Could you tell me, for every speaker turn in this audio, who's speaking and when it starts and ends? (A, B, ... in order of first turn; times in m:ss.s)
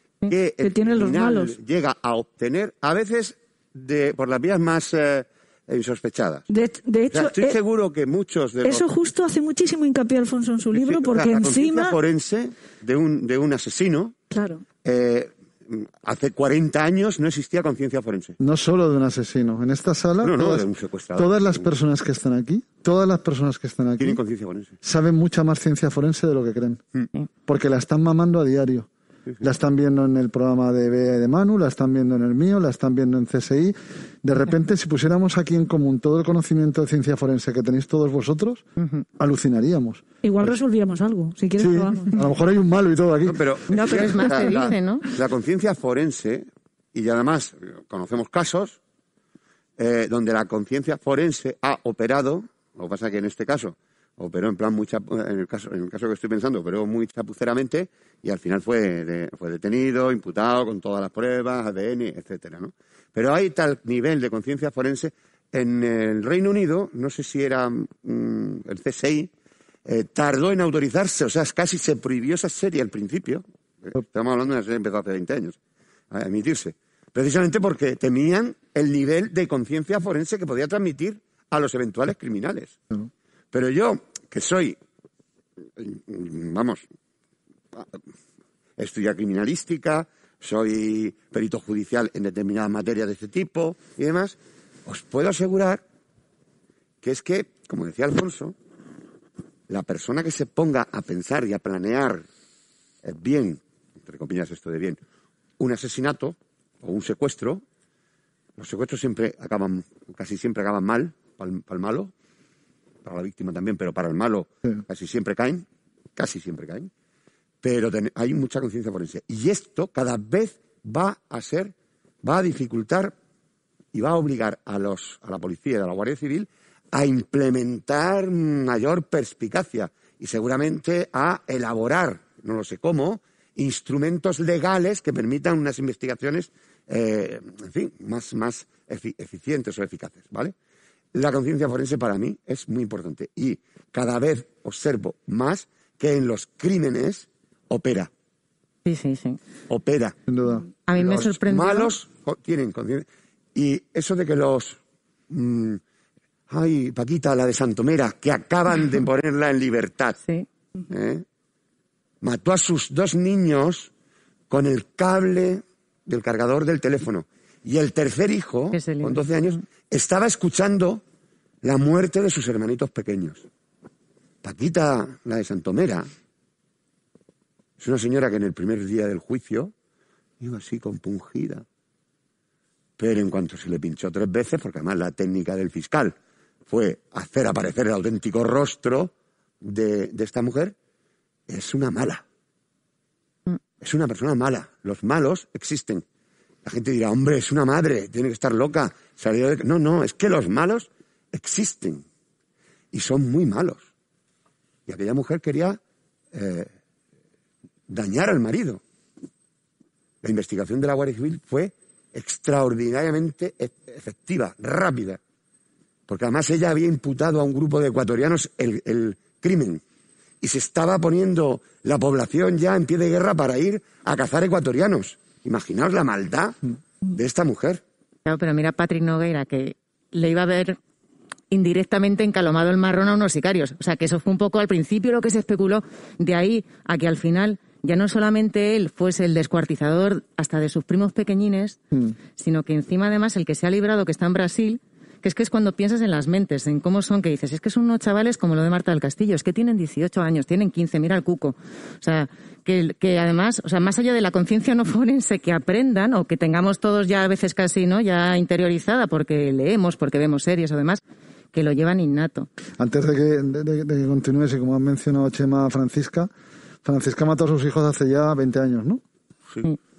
0:00.3-0:06.5 A
0:00.6-0:01.6 B
0:06.5-0:07.6 B
0:07.1-0:08.9 A
0:08.6-0:12.0 B
0:10.7-0:14.1 A
0:14.3-0:14.6 B
0:14.8-0:18.4 A
0:18.4-0:24.2 C
0:20.2-0:21.7 A
0:24.0-0:24.8 A
0:24.8-0:26.8 C
0:27.5-0:28.9 C
0:29.4-0:38.7 C
0:39.2-0:40.5 C
0:40.2-0:42.1 B
0:41.6-0:43.4 C
0:43.2-0:48.8 A
0:43.7-0:45.1 D
0:49.8-1:09.3 A
1:09.8-1:15.6 A
1:16.1-1:22.8 A
1:23.5-1:24.8 A
1:25.8-1:26.8 A
1:28.8-1:35.8 A
1:37.0-1:38.5 A
1:39.7-1:42.2 A
1:43.0-1:45.0 A
1:45.6-1:47.6 A
1:48.6-1:52.1 A
1:53.0-1:55.6 A
1:56.2-1:56.9 A
1:57.6-2:03.1 A
2:03.9-2:20.5 A
2:21.1-2:28.1 A
2:28.8-2:29.4 D
2:29.7-2:30.2 A
2:30.3-2:30.6 C
2:30.8-2:31.9 D
2:30.9-2:34.8 A
2:35.3-2:35.8 A
2:36.5-2:40.2 A
2:40.9-2:41.2 A
2:42.2-2:43.9 A
2:44.5-2:51.0 A
2:48.7-2:49.2 D
2:51.6-2:53.4 A
2:54.4-2:56.1 A
2:57.8-2:59.7 A
3:00.4-3:01.6 A
3:03.0-3:06.1 A
3:06.7-3:09.1 A
3:09.6-3:10.7 A
3:11.5-3:12.2 A
3:13.8-3:16.0 A
3:16.6-3:22.0 A
3:22.9-3:23.9 A
3:24.9-3:25.8 A
3:26.3-3:26.7 A
3:27.9-3:28.8 A
3:30.2-3:35.2 A
3:36.1-3:39.8 A
3:40.4-3:47.8 A
3:48.2-3:50.8 D
3:51.5-4:01.8 D
4:02.4-4:21.0 D
4:21.5-4:22.5 D
4:22.8-4:26.3 C
4:26.8-4:29.0 C